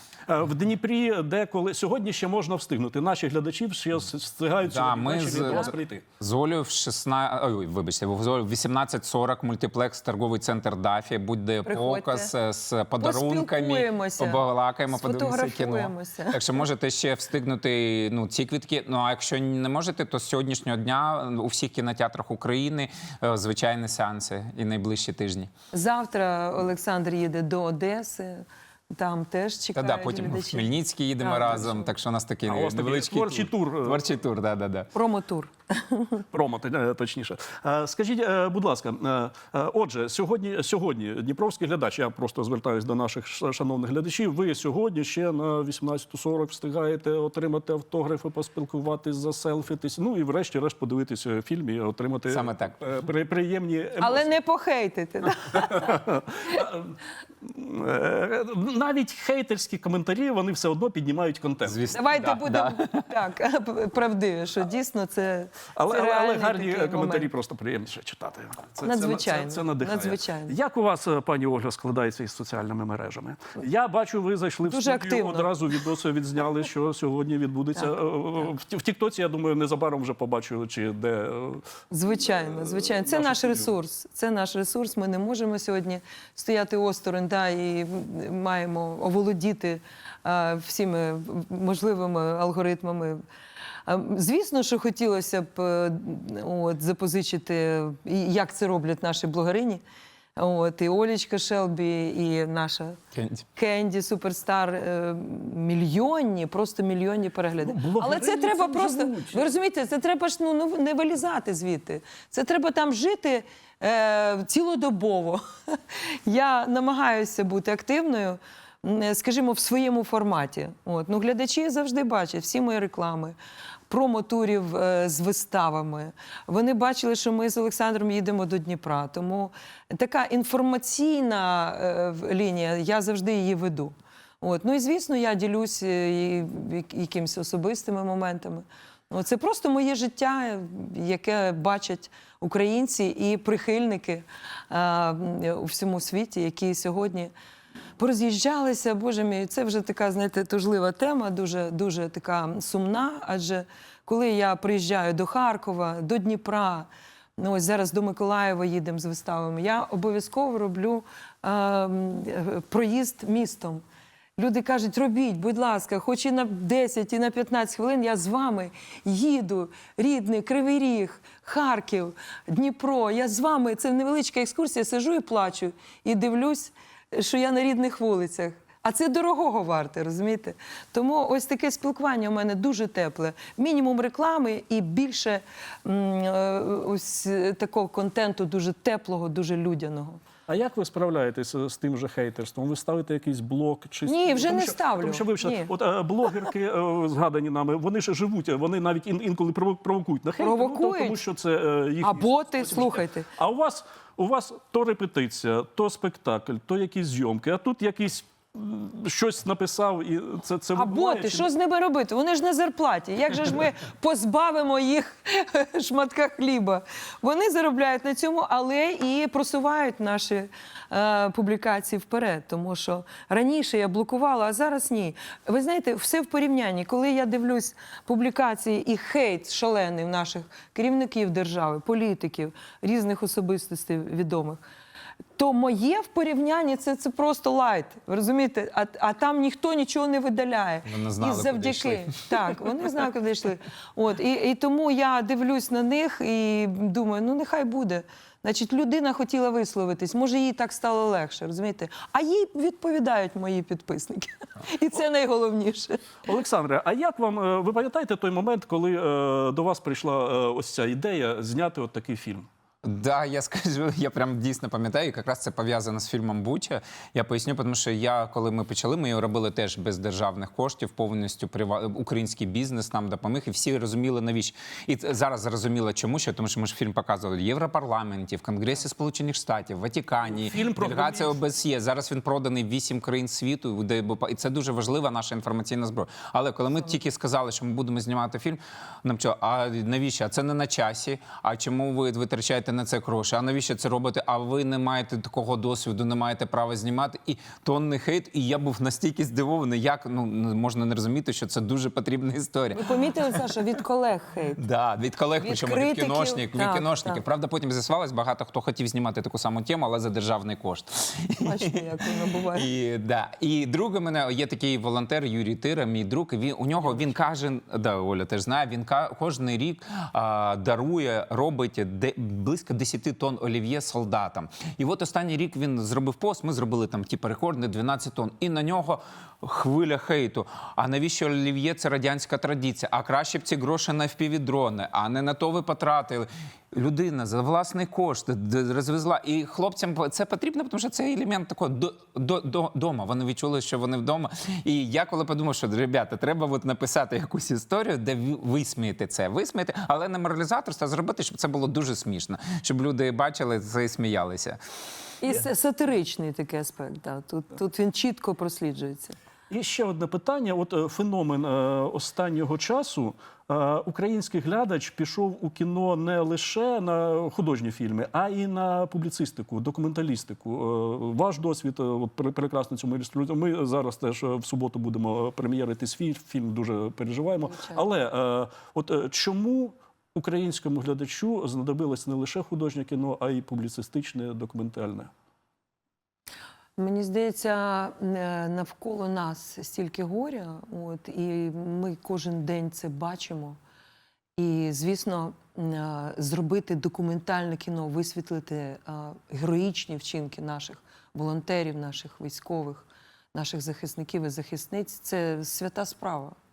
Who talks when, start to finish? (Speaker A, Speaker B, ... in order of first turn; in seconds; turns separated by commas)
Speaker A: 0.3-6.0, Speaker B: 4.7-25.5, Speaker C: 11.6-12.3, Speaker C: 13.0-16.6, Speaker C: 25.7-31.9, Speaker B: 29.8-34.9, Speaker A: 32.5-34.0, Speaker C: 34.9-36.2, Speaker A: 36.3-54.3, Speaker B: 52.3-52.8, Speaker C: 54.0-56.6, Speaker A: 55.5-61.9, Speaker B: 61.6-63.0, Speaker C: 61.9-67.3, Speaker A: 65.8-81.7, Speaker C: 68.8-70.5, Speaker C: 74.7-75.5, Speaker C: 81.9-93.2, Speaker A: 82.2-83.7, Speaker C: 93.9-99.8, Speaker C: 100.4-103.0, Speaker B: 103.1-103.4, Speaker C: 103.5-123.4, Speaker A: 107.6-109.5, Speaker C: 123.9-147.3, Speaker C: 148.0-163.8, Speaker C: 164.4-190.2, Speaker A: 190.5-211.5, Speaker C: 194.1-195.7, Speaker C: 200.4-201.2, Speaker C: 202.0-203.3, Speaker C: 210.8-234.6, Speaker C: 235.4-256.1, Speaker B: 240.9-242.3, Speaker A: 256.3-262.5, Speaker B: 262.8-303.4, Speaker A: 280.3-281.4, Speaker C: 302.7-304.6, Speaker B: 304.6-311.6, Speaker C: 305.4-307.2, Speaker C: 311.4-312.7, Speaker B: 312.5-354.6, Speaker C: 355.2-359.1, Speaker A: 359.5-385.1, Speaker C: 377.5-377.8, Speaker C: 386.8-393.6, Speaker C: 394.4-406.4